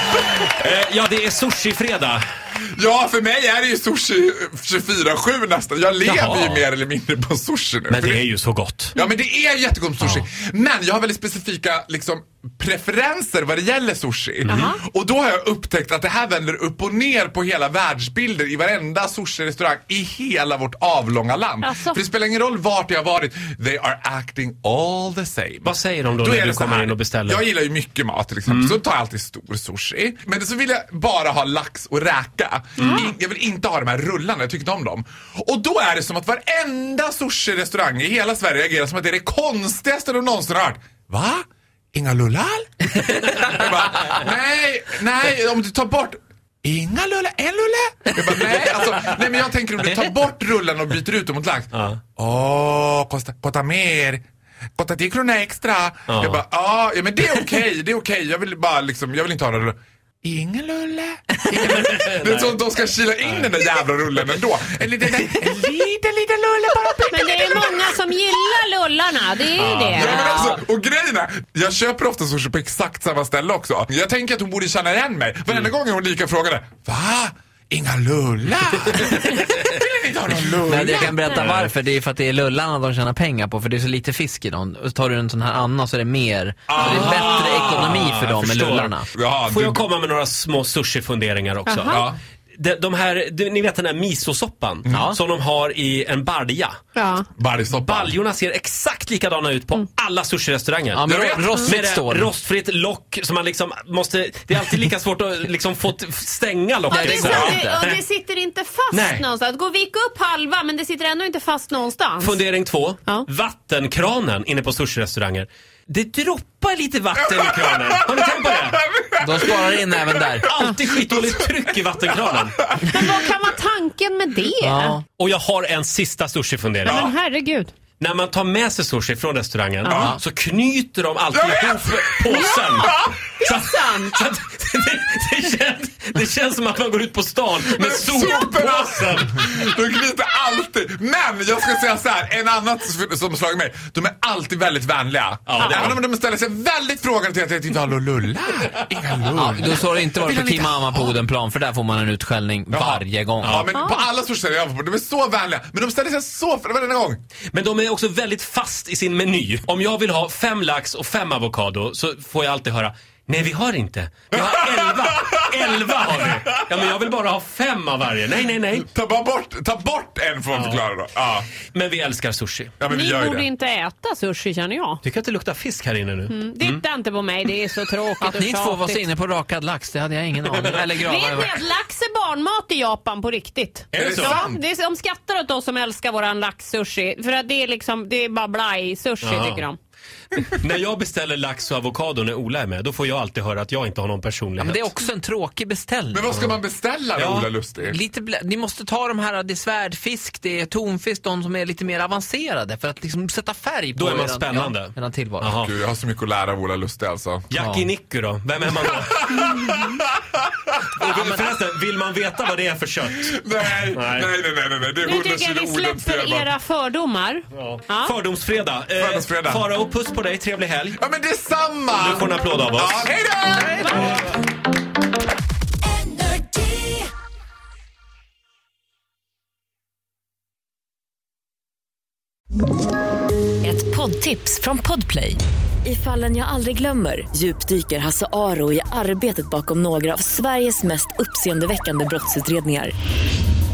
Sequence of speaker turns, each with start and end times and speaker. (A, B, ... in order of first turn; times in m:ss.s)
0:00.2-0:02.2 A
0:02.8-0:08.2 B
0:06.0-0:06.6 A
0:07.9-0:09.0 A
0:08.9-0:41.4 B
0:14.5-0:14.8 C
0:21.6-0:22.0 C
0:25.6-0:27.4 A
0:32.8-0:33.1 C
0:41.9-0:54.2 B
0:51.7-0:52.0 A
0:54.8-1:07.9 B
0:56.1-0:56.4 A
1:01.5-1:02.6 A
1:03.2-1:03.5 A
1:07.1-1:10.5 C
1:09.6-1:10.2 A
1:09.9-1:21.5 B
1:20.7-1:29.1 D
1:21.2-1:21.7 A
1:26.7-1:28.0 B
1:26.8-1:29.0 A
1:29.1-1:29.8 B
1:29.5-1:32.0 A
1:31.6-1:32.0 C
1:31.9-1:32.2 B
1:32.6-1:36.8 A
1:34.9-1:35.2 D
1:36.9-1:37.3 C
1:37.4-1:38.2 B
1:37.8-1:48.0 A
1:40.9-1:42.3 D
1:41.1-1:41.6 B
1:46.9-1:47.8 D
1:46.9-1:52.4 C
1:47.3-1:47.6 B
1:48.9-1:49.3 A
1:52.2-1:58.8 A
1:57.2-2:03.3 B
1:59.2-2:00.4 D
2:00.4-2:02.6 A
2:02.9-2:05.0 C
2:04.6-2:05.0 D
2:05.2-2:07.1 A
2:06.8-2:07.7 C
2:08.0-2:19.4 A
2:09.8-2:10.1 C
2:09.9-2:10.1 B
2:11.3-2:13.1 B
2:12.4-2:12.8 C
2:13.4-2:14.2 C
2:17.6-2:31.2 B
2:25.5-2:26.0 A
2:25.6-2:25.9 C
2:29.3-2:33.7 D
2:32.7-2:37.2 B
2:33.4-2:33.7 A
2:33.7-2:34.1 C
2:37.5-2:48.9 A
2:44.3-2:46.6 B
2:48.9-2:51.5 B
2:50.5-2:50.8 A
2:51.7-2:52.7 A
2:52.8-2:53.5 B
2:52.9-2:55.0 C
2:55.0-2:56.8 A
2:56.3-2:59.0 C
2:58.2-3:01.6 D
3:00.5-3:00.8 A
3:00.9-3:09.8 C
3:03.9-3:04.4 A
3:03.9-3:04.6 B
3:09.2-3:09.6 A
3:10.4-3:14.9 A
3:14.6-3:16.3 D
3:16.1-3:18.0 B
3:17.2-3:17.5 A
3:17.8-3:25.6 D
3:23.9-3:25.7 A
3:25.6-3:27.5 B
3:27.5-3:29.5 A
3:27.5-3:27.9 D
3:29.1-3:30.1 B
3:30.9-3:33.4 A
3:33.3-3:36.5 B
3:33.9-3:34.3 A
3:35.0-3:38.1 C
3:37.5-3:41.0 A
3:39.0-3:39.7 B
3:41.0-3:44.2 B
3:41.9-3:43.0 A
3:45.8-3:47.0 E
3:53.6-4:02.9 E